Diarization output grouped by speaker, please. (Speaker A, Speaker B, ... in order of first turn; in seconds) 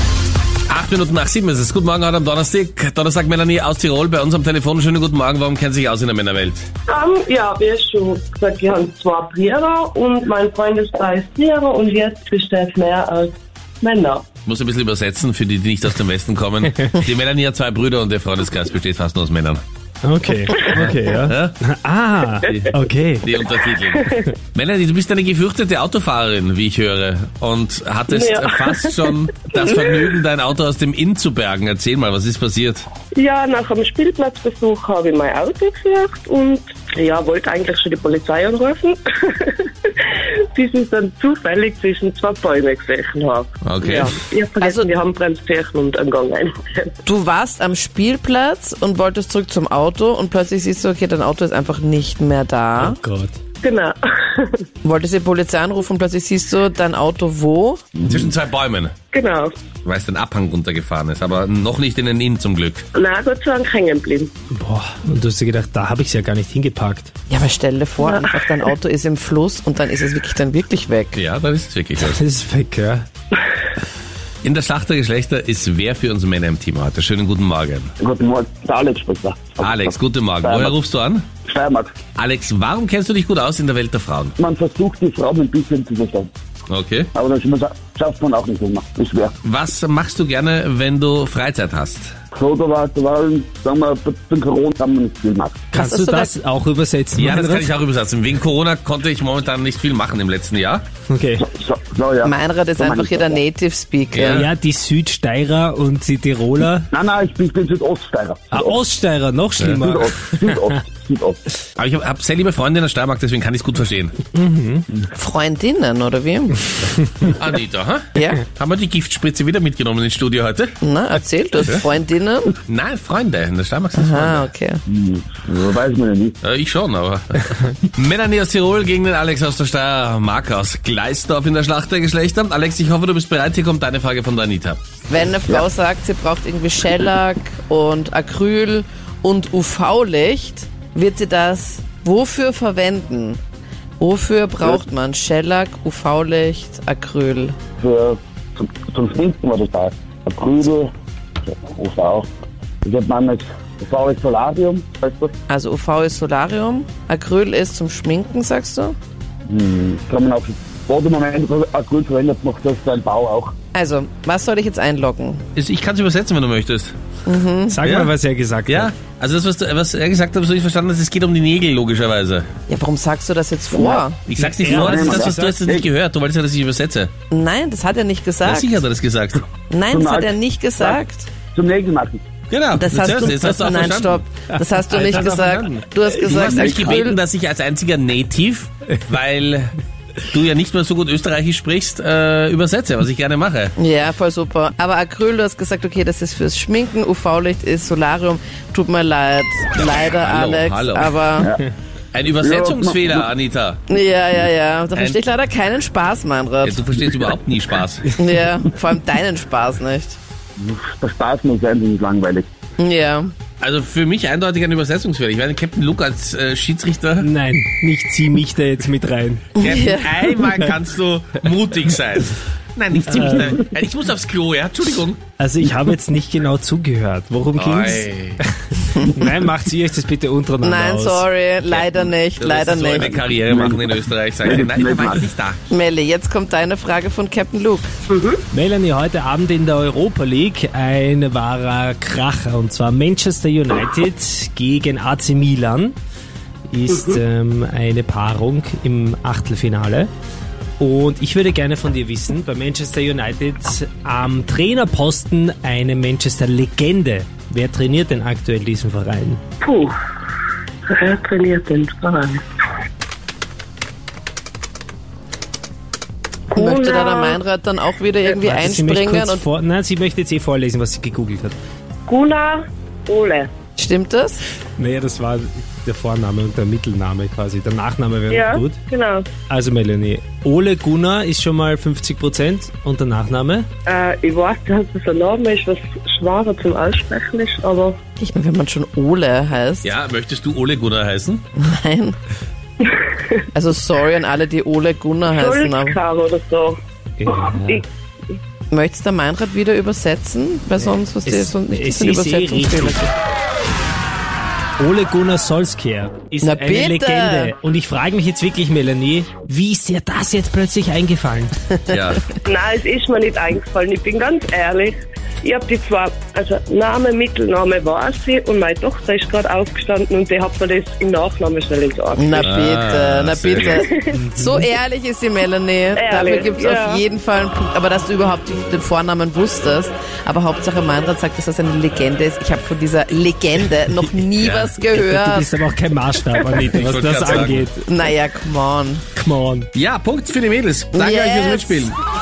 Speaker A: 0.7-6.7, 14.4-19.6, 20.7-21.6, 22.4-32.9, 43.6-44.2, 58.0-59.0, 59.9-62.9, 71.2-72.2, 74.4-77.9, 79.6-81.2, 82.2-84.3, 86.7-87.1, 89.4-92.1, 97.2-100.8, 104.1-104.5, 111.8-114.2, 117.3-120.7, 121.6-121.8, 122.7-124.5, 126.4-134.8, 165.6-166.9, 167.8-168.1, 168.7-172.5, 174.3-177.1, 178.4-179.5, 182.5-184.2, 184.9-189.7, 190.3-193.8, 200.0-201.2, 202.1-203.8, 204.9-205.2, 206.6-208.1, 213.6-217.3, 219.6-225.2, 227.6-228.4, 231.7-235.6, 289.8-291.4, 311.9-312.2, 322.4-323.8, 334.4-334.8, 336.6-337.7, 339.7-342.0
Speaker B: 6.9-14.3, 23.9-24.3, 28.1-29.8, 33.1-47.0, 53.6-54.6, 59.1-59.5, 63.0-64.3, 68.0-68.7, 238.1-238.4, 246.9-247.2, 259.6-259.9, 260.9-262.4, 266.5-267.4, 272.1-273.5, 278.3-279.3, 283.9-288.0, 292.8-293.4, 295.3-297.9, 312.4-322.5, 323.8-324.2, 325.9-327.0
Speaker C: 20.0-23.3, 52.8-53.4, 64.5-67.1, 72.0-73.1, 95.7-97.7, 101.1-101.5, 104.3-106.9, 108.5-110.6, 114.3-114.9, 167.7-168.9, 174.4-175.5, 217.2-219.5, 223.1-223.6, 225.4-231.3, 238.5-246.0, 246.7-250.1, 250.8-259.4, 268.4-271.6, 274.8-278.8, 279.5-283.7, 297.2-297.8, 301.2-303.1, 304.8-311.6, 324.1-324.6, 334.9-337.8, 339.1-339.7
Speaker D: 44.6-44.9, 47.0-53.0, 54.8-57.9, 67.3-71.2, 95.8-96.3, 102.2-104.5, 115.2-116.7, 118.2-118.4, 120.8-122.5, 124.0-124.8, 135.1-143.4, 144.0-147.6, 155.5-159.0, 163.7-165.4, 167.3-167.8, 172.7-174.2, 177.3-178.8, 179.7-181.3, 182.8-187.2, 193.8-201.5, 203.9-206.8, 208.2-210.2, 212.8-213.3, 219.6-220.1, 230.6-233.2, 235.7-237.9, 266.6-269.4, 273.8-274.4, 288.2-289.9, 291.6-292.2, 293.5-296.0, 298.7-303.0, 306.4-307.5, 311.9-312.2, 322.1-335.5, 337.8-339.1, 340.9-341.9
Speaker E: 58.0-58.3, 78.0-80.8, 81.5-81.9, 84.4-86.3, 87.1-89.3, 92.3-95.6, 101.4-103.4, 106.9-108.8, 109.8-111.4, 124.9-126.4, 147.8-150.9, 151.4-152.3, 152.8-155.3, 159.5-163.6, 173.7-174.1, 174.6-175.9, 179.9-181.0, 181.5-182.2, 186.4-186.9, 201.4-201.6, 202.4-203.3, 210.6-212.5, 233.5-235.3